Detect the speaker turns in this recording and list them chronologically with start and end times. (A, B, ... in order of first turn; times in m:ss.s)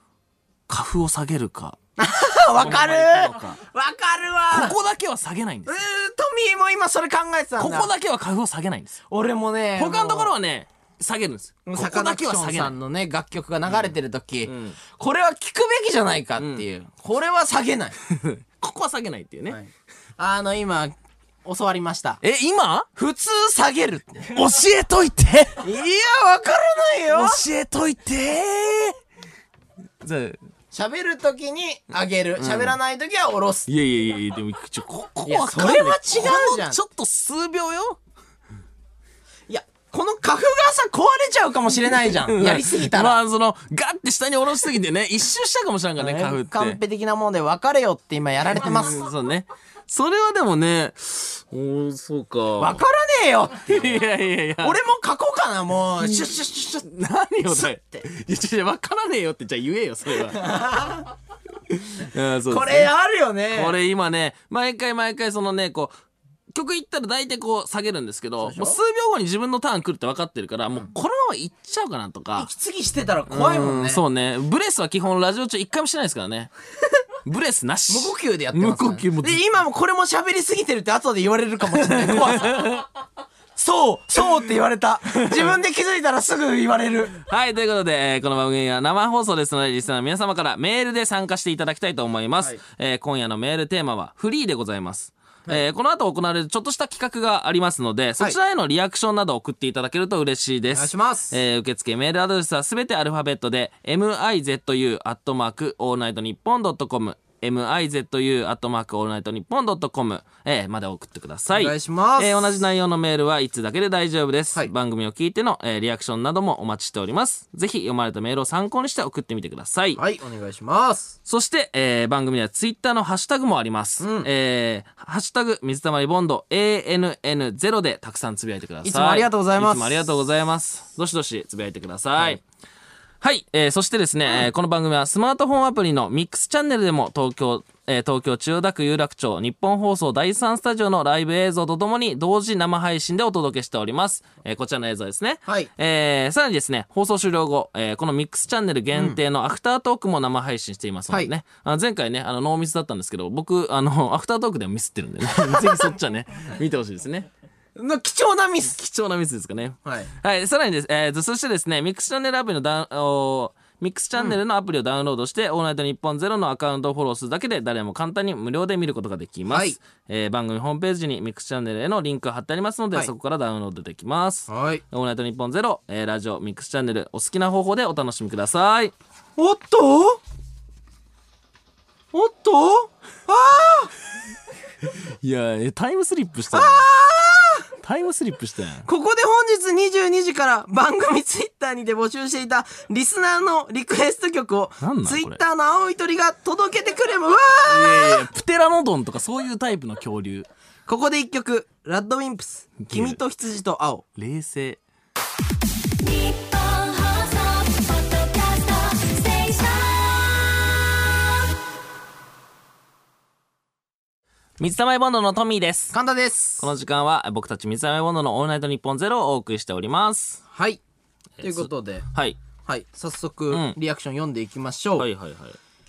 0:00.7-0:01.8 A
0:02.0-0:04.8 B
0:02.6-0:03.6 A
0:04.5-0:05.8 A
0:05.6-0:07.9 B
0:07.6-0:09.0 A
0:09.1-0:10.3 B
0:09.8-0:12.7 A
0:11.6-0:18.0 B
0:14.4-0:14.8 A
0:16.4-0:16.6 A
0:18.1-0:19.6 A
0:19.5-0:22.2 B
0:22.2-0:22.9 A
0:23.0-0:24.3 B
0:24.3-0:25.6 A
0:25.6-0:27.4 B
0:27.1-0:29.0 A
0:30.0-0:30.4 A
0:30.7-0:33.7 B
0:32.4-0:32.8 A
0:33.7-0:38.0 A
0:35.2-0:36.8 B
0:39.5-0:43.2 B
0:42.2-0:46.8 A
0:46.0-0:49.1 B
0:48.5-0:52.8 A
0:52.6-0:54.0 B
0:53.7-0:54.8 A
0:54.6-0:56.8 B
0:56.8-1:00.5 A
0:57.5-0:58.0 B
1:00.3-1:01.0 B
1:01.7-1:02.9 A
1:02.5-1:03.8 B
1:03.5-1:05.9 A
1:06.5-1:12.5 A
1:08.4-1:08.8 B
1:12.4-1:14.0 B
1:13.3-1:16.5 A
1:17.2-1:19.4 A
1:17.9-1:22.7 B
1:21.7-1:22.8 A
1:23.6-1:27.2 B
1:25.1-1:25.5 A
1:27.2-2:00.0 A
1:40.7-1:41.4 B
1:51.5-1:52.5 B
2:00.0-2:01.1 B
2:01.2-2:12.4 A
2:04.0-2:04.3 B
2:08.8-2:10.0 B
2:13.2-2:37.3 A
2:25.4-2:25.7 B
2:28.9-2:29.2 B
2:35.5-2:35.9 B
2:37.8-2:38.8 B
2:38.6-2:58.9 A
2:49.5-2:49.8 B
2:54.5-2:54.8 B
2:59.4-3:00.2 B
3:02.1-3:03.9 B
3:05.2-3:06.8 A
3:06.5-3:07.6 B
3:07.8-3:08.9 A
3:08.8-3:18.2 B
3:14.8-3:15.4 A
3:17.6-3:20.5 A
3:20.9-3:24.0 B
3:22.8-3:23.2 A
3:24.2-3:24.8 A
3:26.0-3:30.7 C
3:34.6-3:36.0 A
3:35.9-3:36.7 B
3:36.6-3:40.4 A
3:40.5-3:40.8 B
3:41.4-3:42.4 A
3:41.4-3:42.0 B
3:42.6-3:45.1 B
3:43.5-3:43.8 A
3:45.0-3:45.6 A